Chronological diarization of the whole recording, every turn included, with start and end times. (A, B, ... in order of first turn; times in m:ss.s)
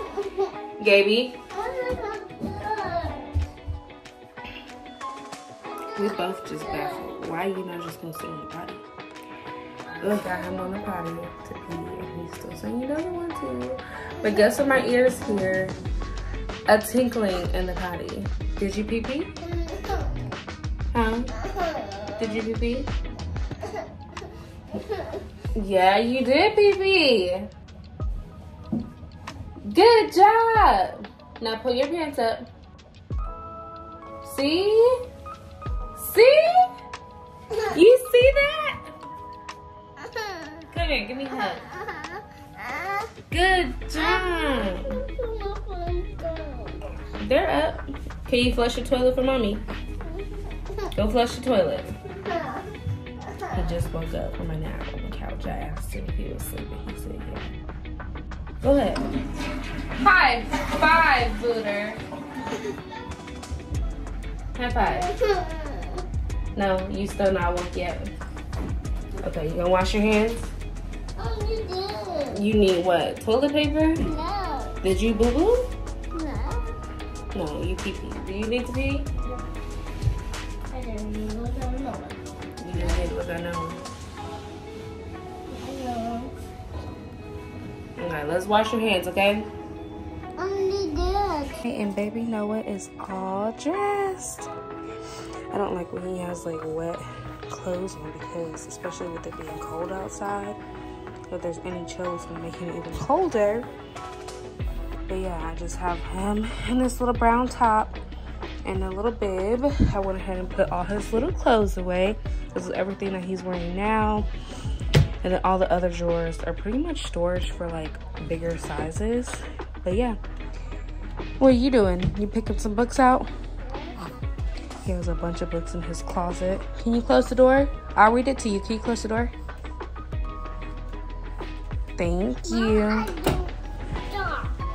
0:00.1-0:00.5 A
0:00.8-0:01.4 B
0:01.5-0:03.3 A
0:05.6-0:07.0 A
0:06.0-0:08.9 B
0:10.0-0:10.6 A
0:10.0-0:15.8 B
0:16.7-0:19.3 B
0:19.4-0:20.3 A
0:20.9-0:21.3 B
0:21.4-0:22.2 A
0:22.2-0:22.9 B
0:24.7-0:25.2 A
0:25.5-0:27.5 B
0:29.6-0:32.5 B
0:34.2-0:34.9 B
0:36.0-0:36.7 B
0:37.6-0:38.9 B
0:40.0-0:40.6 A
0:40.7-0:41.6 B
0:41.7-0:43.1 A
0:43.3-0:45.0 B
0:43.9-0:46.9 A
0:47.2-0:49.6 B
0:50.0-0:50.9 A
0:50.9-0:51.9 B
0:52.2-0:52.7 A
0:53.3-0:53.5 A
0:53.5-0:57.5 B
0:58.6-0:59.1 B
1:00.0-1:02.0 B
1:04.6-1:05.1 B
1:04.9-1:06.0 A
1:06.5-1:08.1 B
1:09.2-1:10.5 B
1:11.2-1:12.4 A
1:12.3-1:14.0 B
1:14.0-1:14.8 A
1:14.8-1:15.7 B
1:16.1-1:16.7 A
1:17.3-1:19.1 B
1:20.7-1:22.2 A
1:22.6-1:23.8 B
1:22.7-1:23.0 A
1:25.5-1:26.3 A
1:28.0-1:29.5 B
1:30.4-1:31.5 A
1:31.6-1:34.5 B
1:35.5-1:40.6 B
1:41.3-1:43.7 B
1:45.1-1:48.0 B
1:48.6-1:54.3 B
1:55.2-2:00.2 B
2:01.4-2:03.3 B
2:03.6-2:04.0 A
2:04.8-2:09.3 B
2:12.0-2:13.1 B
2:12.4-2:13.5 A
2:14.1-2:14.6 A